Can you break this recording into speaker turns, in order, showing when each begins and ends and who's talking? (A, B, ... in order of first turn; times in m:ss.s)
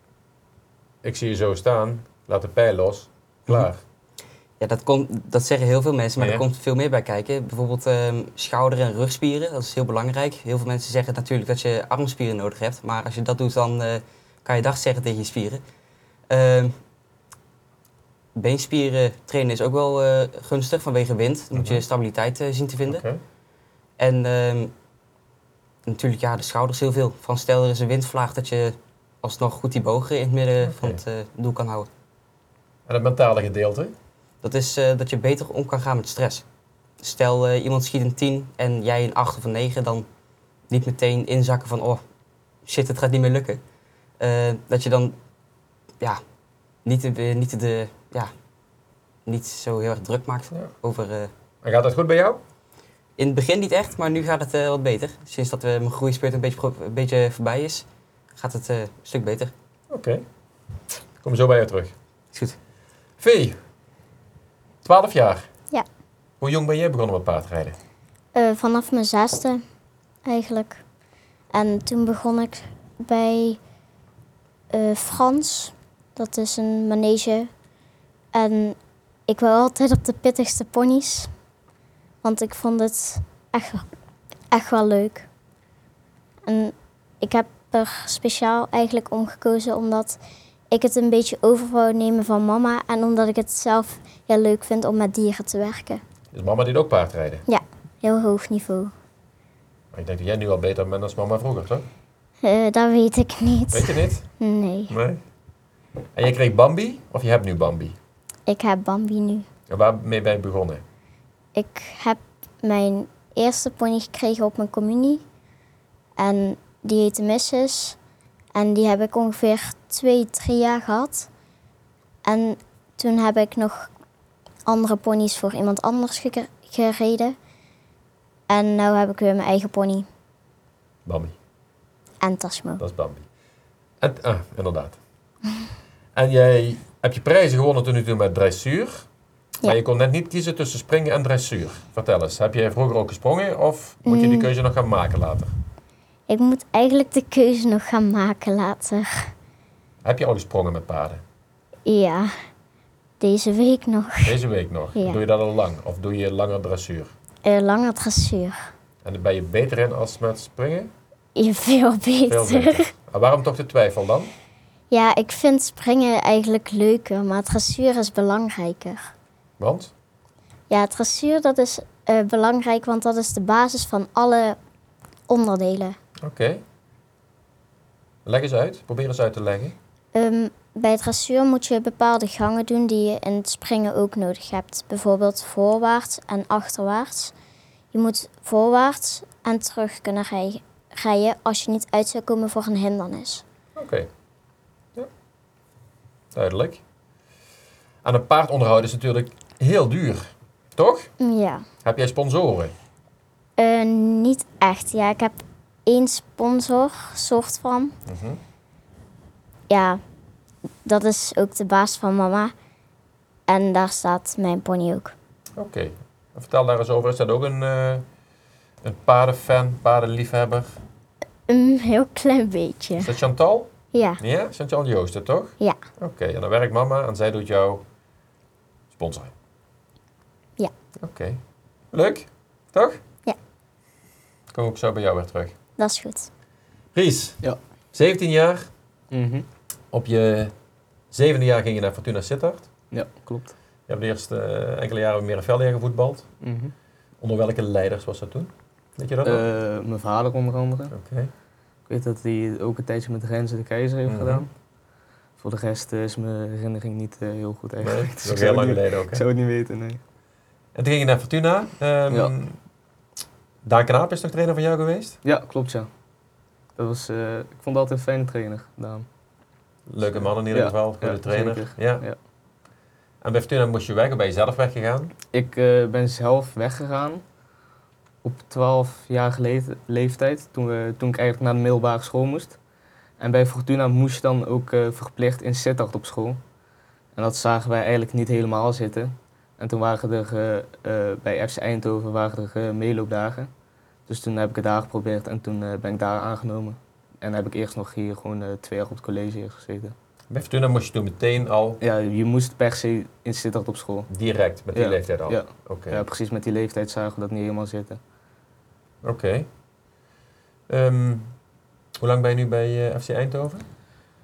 0:01.0-0:03.8 A
0:04.6-0:15.6 B
0:06.2-0:06.4 A
0:16.3-0:16.8 B
0:18.4-0:23.0 B
0:21.5-0:21.8 A
0:22.9-0:23.2 A
0:24.0-0:24.7 B
0:25.8-0:31.9 B
0:30.6-0:31.0 A
0:32.9-0:33.9 A
0:34.4-0:36.4 B
0:37.0-0:40.0 B
0:40.7-0:42.0 B
0:42.6-0:43.6 B
0:44.2-0:45.2 B
0:46.8-0:48.3 B
0:49.2-0:51.3 B
0:51.6-0:52.4 A
0:53.2-0:59.5 B
0:59.9-1:00.2 A
1:01.2-1:01.9 A
1:03.2-1:03.6 A
1:04.8-1:05.4 A
1:06.4-1:07.8 A
1:08.3-1:09.6 C
1:10.2-1:10.8 C
1:11.5-1:13.6 C
1:14.7-1:17.5 C
1:18.3-1:21.3 C
1:22.2-1:23.8 C
1:24.5-1:25.2 C
1:26.4-1:30.2 C
1:30.7-1:36.0 C
1:36.3-1:37.4 A
1:37.5-1:38.9 C
1:39.9-1:41.8 A
1:42.4-1:44.9 C
1:43.7-1:44.2 A
1:44.9-1:45.2 A
1:46.2-1:48.0 A
1:48.5-1:49.5 C
1:49.7-1:50.8 A
1:51.5-1:55.2 C
1:56.2-1:58.0 C
1:58.5-2:01.3 C
2:02.2-2:03.9 C
2:04.6-2:07.4 C
2:08.5-2:10.1 C
2:11.0-2:11.3 A
2:12.2-2:12.8 C
2:12.8-2:13.2 A
2:14.0-2:15.0 A
2:16.1-2:19.0 A
2:19.6-2:25.5 A
2:24.0-2:24.5 C
2:26.3-2:29.3 C
2:30.0-2:31.2 A
2:31.8-2:32.4 C
2:33.2-2:34.4 C
2:34.2-2:37.1 A
2:37.4-2:38.7 C
2:39.0-2:40.9 A
2:41.4-2:42.9 C
2:42.3-2:44.3 A
2:44.9-2:49.1 C
2:49.6-2:49.9 A
2:50.7-2:54.6 C
2:55.3-2:56.0 C
2:56.2-2:56.6 A
2:58.2-2:59.7 A
3:00.1-3:07.3 C
3:07.9-3:13.4 C
3:13.8-3:14.1 A
3:16.3-3:16.8 A
3:18.0-3:21.1 A
3:21.2-3:21.6 C
3:21.8-3:22.7 A
3:23.6-3:28.0 C
3:28.0-3:28.4 A
3:29.7-3:30.0 C
3:30.8-3:32.5 C
3:33.5-3:35.1 C
3:35.6-3:38.0 A
3:38.8-3:40.8 A
3:41.5-3:43.1 C
3:43.0-3:47.8 A
3:43.9-3:44.2 C
3:48.9-3:49.3 A
3:51.0-3:51.4 A
3:51.9-3:53.0 A
3:54.5-3:55.5 A
3:55.8-3:56.3 C
3:56.9-3:57.4 A
3:57.9-3:58.7 A
3:59.1-3:59.4 D
3:59.9-4:00.5 A
4:01.1-4:02.7 A
4:02.9-4:03.5 D
4:03.9-4:06.2 A
4:06.4-4:06.7 D
4:07.2-4:09.4 A
4:09.2-4:10.9 D
4:10.9-4:11.3 A
4:11.9-4:14.5 D
4:14.0-4:14.4 A
4:15.4-4:20.0 D
4:17.8-4:19.2 A
4:20.7-4:22.6 A
4:23.6-4:25.2 A
4:25.2-4:25.9 D
4:26.8-4:29.0 D
4:29.9-4:32.0 A
4:30.1-4:32.2 D
4:33.2-4:35.1 A
4:35.3-4:37.2 D
4:38.2-4:42.6 D
4:43.2-4:46.4 D
4:47.2-4:53.5 D
4:54.1-4:59.9 D
5:00.3-5:01.8 A
5:01.8-5:04.1 D
5:04.1-5:06.0 A
5:04.7-5:08.0 D
5:09.0-5:09.5 A
5:10.7-5:11.3 A
5:12.0-5:13.6 A